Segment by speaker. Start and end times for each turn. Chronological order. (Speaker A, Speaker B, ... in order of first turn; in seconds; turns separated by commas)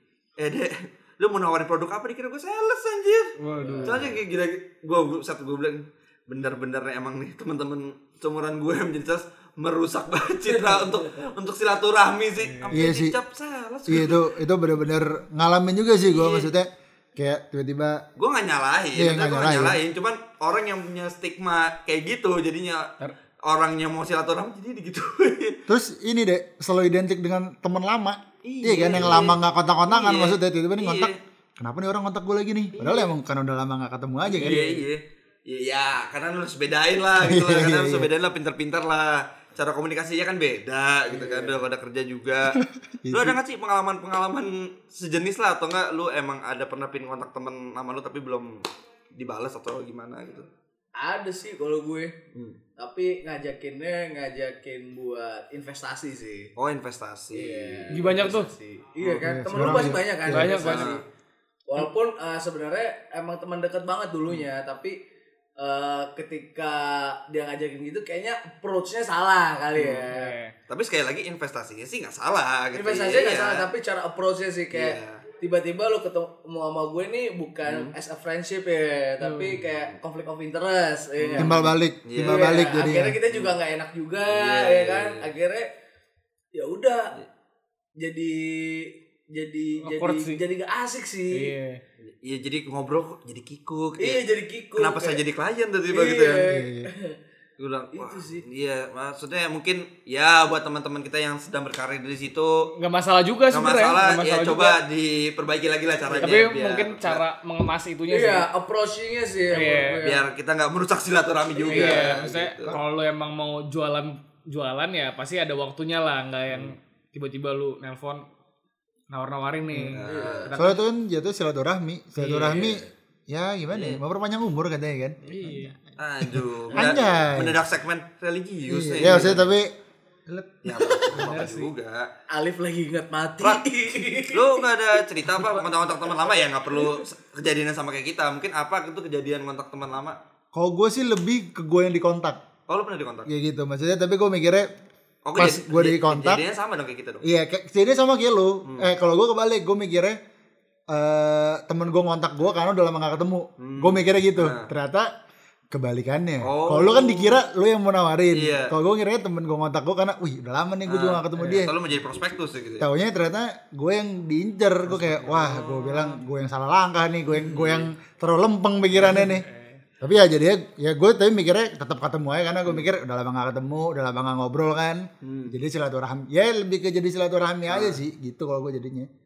Speaker A: 0.4-14.2, Speaker B: 3.4-4.1, Speaker C: 3.6-4.1, Speaker B: 12.4-12.8, Speaker D: 12.7-13.2, Speaker D: 13.9-18.1, Speaker A: 16.1-16.5, Speaker A: 18.2-22.9, Speaker D: 18.9-19.8, Speaker A: 23.4-25.6, Speaker D: 25.7-34.7, Speaker A: 28.4-31.2, Speaker A: 32.8-33.1, Speaker A: 34.3-42.6, Speaker D: 37.2-38.1, Speaker C: 41.1-41.6, Speaker D: 42.5-43.4, Speaker A: 43.1-50.5, Speaker C: 51.0-52.1, Speaker C: 52.8-56.5, Speaker A: 56.6-58.3, Speaker C: 57.3-61.0, Speaker B: 57.9-58.5, Speaker D: 59.2-60.5, Speaker B: 60.3-60.9, Speaker A: 60.5-61.0, Speaker C: 61.7-65.0, Speaker C: 65.6-70.3, Speaker A: 69.8-70.1, Speaker B: 70.1-70.5, Speaker A: 70.7-73.7, Speaker C: 72.8-85.7, Speaker A: 74.7-75.2, Speaker A: 77.7-78.0, Speaker B: 79.2-79.6, Speaker A: 81.2-82.6, Speaker D: 81.4-83.2, Speaker A: 84.3-85.3, Speaker C: 86.5-87.1, Speaker C: 88.0-91.5, Speaker B: 89.8-90.4, Speaker B: 91.3-91.8, Speaker A: 92.0-94.2, Speaker C: 94.0-95.2, Speaker A: 94.8-96.5, Speaker C: 95.9-97.2, Speaker D: 96.5-96.9, Speaker A: 97.6-102.7, Speaker C: 97.9-98.4, Speaker B: 102.8-104.8, Speaker A: 103.5-107.2, Speaker C: 106.0-106.5, Speaker B: 106.2-108.5, Speaker C: 108.1-110.3, Speaker B: 109.5-110.0, Speaker A: 110.0-112.8, Speaker C: 111.5-112.3, Speaker B: 111.7-118.2, Speaker B: 119.1-120.8, Speaker D: 119.7-120.0, Speaker A: 119.9-120.5, Speaker C: 120.0-120.5, Speaker D: 120.5-125.7, Speaker B: 122.2-122.8, Speaker A: 123.7-124.0, Speaker B: 125.2-125.8, Speaker A: 126.0-129.4, Speaker D: 126.2-127.6, Speaker D: 128.7-129.7, Speaker C: 129.0-129.4, Speaker D: 130.3-130.9, Speaker A: 130.6-132.1, Speaker B: 131.1-131.7, Speaker C: 132.3-134.6, Speaker A: 134.3-140.2, Speaker C: 136.7-137.0, Speaker D: 140.5-142.4, Speaker A: 142.7-143.3, Speaker D: 143.3-144.7, Speaker A: 145.2-147.2, Speaker D: 145.3-146.4, Speaker D: 147.2-150.2, Speaker D: 150.9-155.1, Speaker A: 153.6-154.7, Speaker D: 155.7-161.8, Speaker A: 156.4-157.4, Speaker A: 158.3-158.7, Speaker A: 160.9-162.9, Speaker D: 162.8-169.5, Speaker B: 165.0-165.7, Speaker A: 165.3-166.2, Speaker A: 167.3-167.9, Speaker B: 168.9-169.8, Speaker D: 170.0-179.1, Speaker A: 172.7-172.9, Speaker A: 175.2-175.6, Speaker A: 177.7-178.0